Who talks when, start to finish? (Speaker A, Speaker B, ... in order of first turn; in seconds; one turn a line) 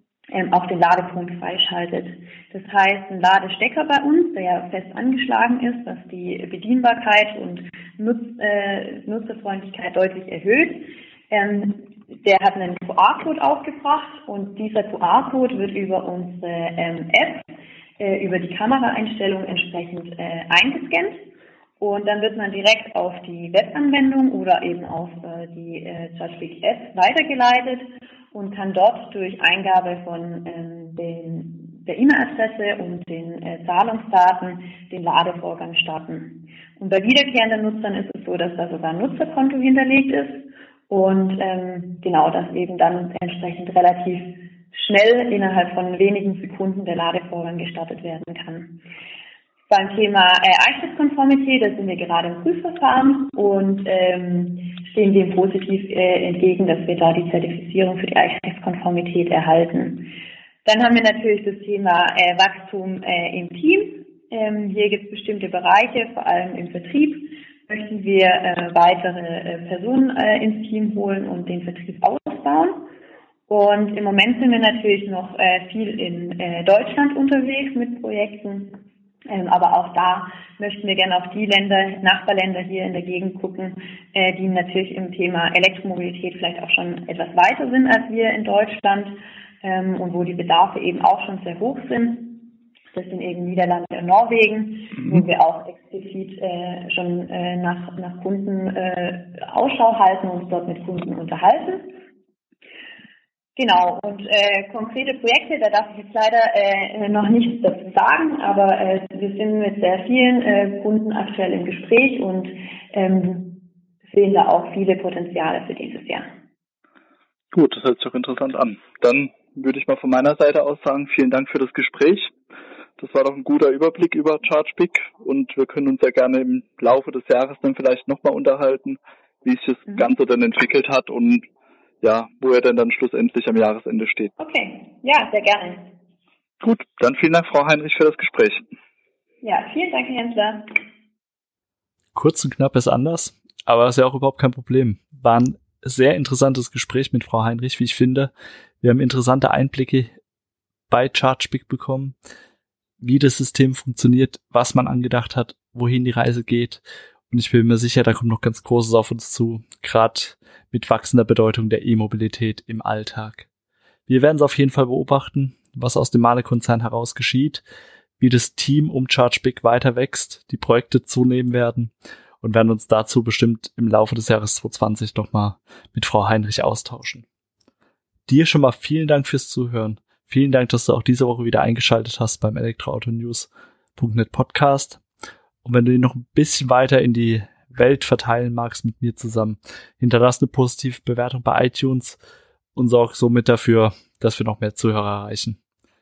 Speaker A: 0.3-21.2
Speaker A: 21.8-48.8
Speaker A: 49.7-60.1
Speaker A: 60.6-72.9
Speaker A: 73.5-102.0
Speaker A: 103.6-116.3
Speaker B: 117.5-122.3
Speaker B: 123.0-131.4
Speaker A: 129.9-130.1
Speaker B: 132.0-134.3
Speaker A: 134.4-135.9
Speaker B: 136.6-138.6
Speaker A: 139.4-140.7
Speaker C: 142.2-150.1
Speaker C: 150.9-152.2
Speaker C: 153.0-163.5
Speaker C: 164.1-167.6
Speaker C: 168.2-177.2
Speaker C: 178.3-185.0
Speaker C: 185.6-192.2
Speaker C: 192.8-195.6